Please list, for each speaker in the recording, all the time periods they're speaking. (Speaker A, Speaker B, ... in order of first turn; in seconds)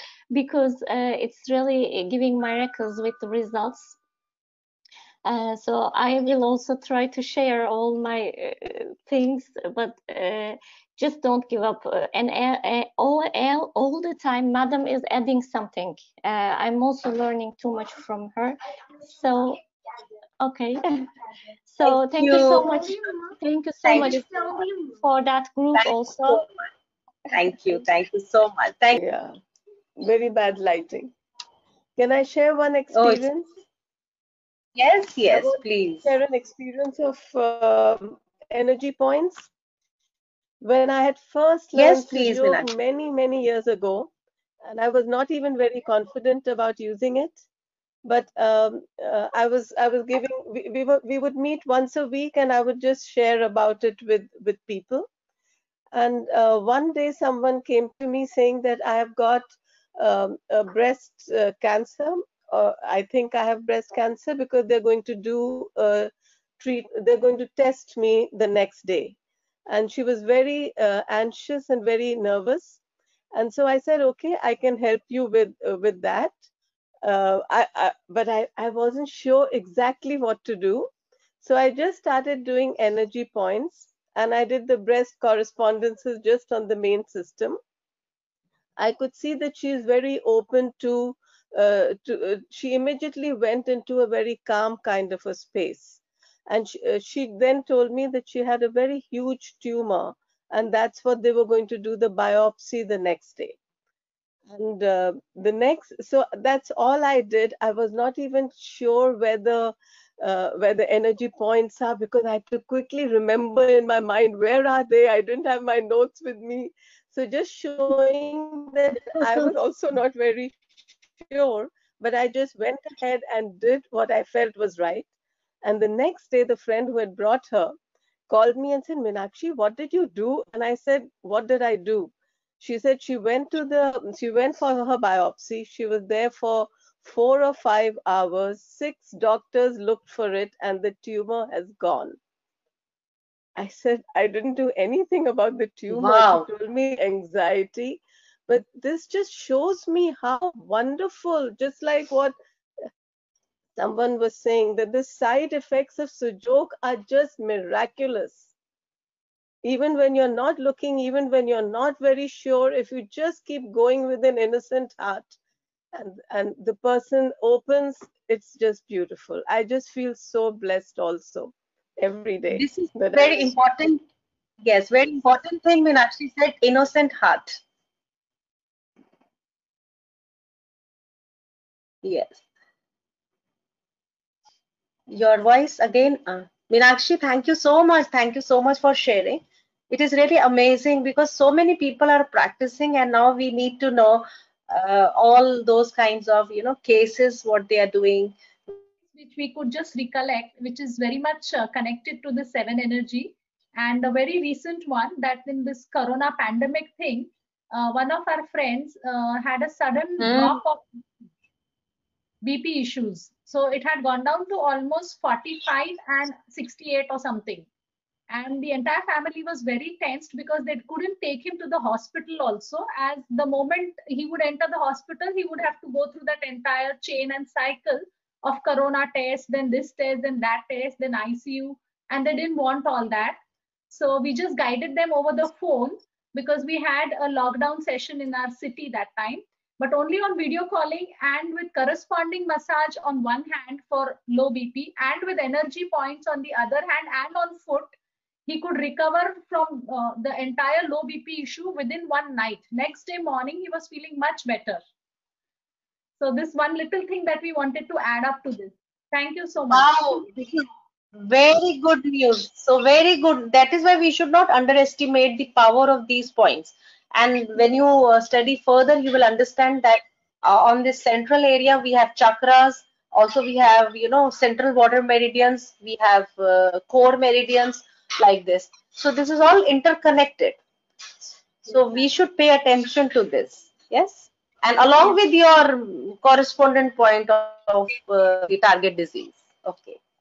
Speaker A: 0.3-4.0, 5.2-19.6, 20.4-21.1, 21.7-26.5
Speaker B: 21.8-22.9, 23.8-24.6, 25.8-26.7, 27.3-29.0, 32.9-33.3, 34.8-36.1, 41.7-42.7, 119.2-119.5, 145.9-146.5, 172.5-174.0, 174.6-177.6, 182.0-182.4, 185.1-198.3, 210.2-210.6, 259.7-260.6, 261.2-280.6, 281.2-290.0
Speaker C: 29.0-29.3, 30.0-31.1, 32.0-33.5, 35.3-39.5, 40.6-44.1, 44.6-47.4, 48.0-55.1, 55.9-72.8, 73.3-76.4, 77.0-87.6, 88.8-103.6, 104.5-120.6, 121.2-125.1, 125.6-127.7, 128.3-142.2, 143.6-152.4, 153.8-158.5, 159.6-165.4, 165.9-173.6
Speaker D: 199.1-211.0, 212.4-217.7, 218.3-233.4, 233.9-247.9, 248.5-254.8, 256.2-260.2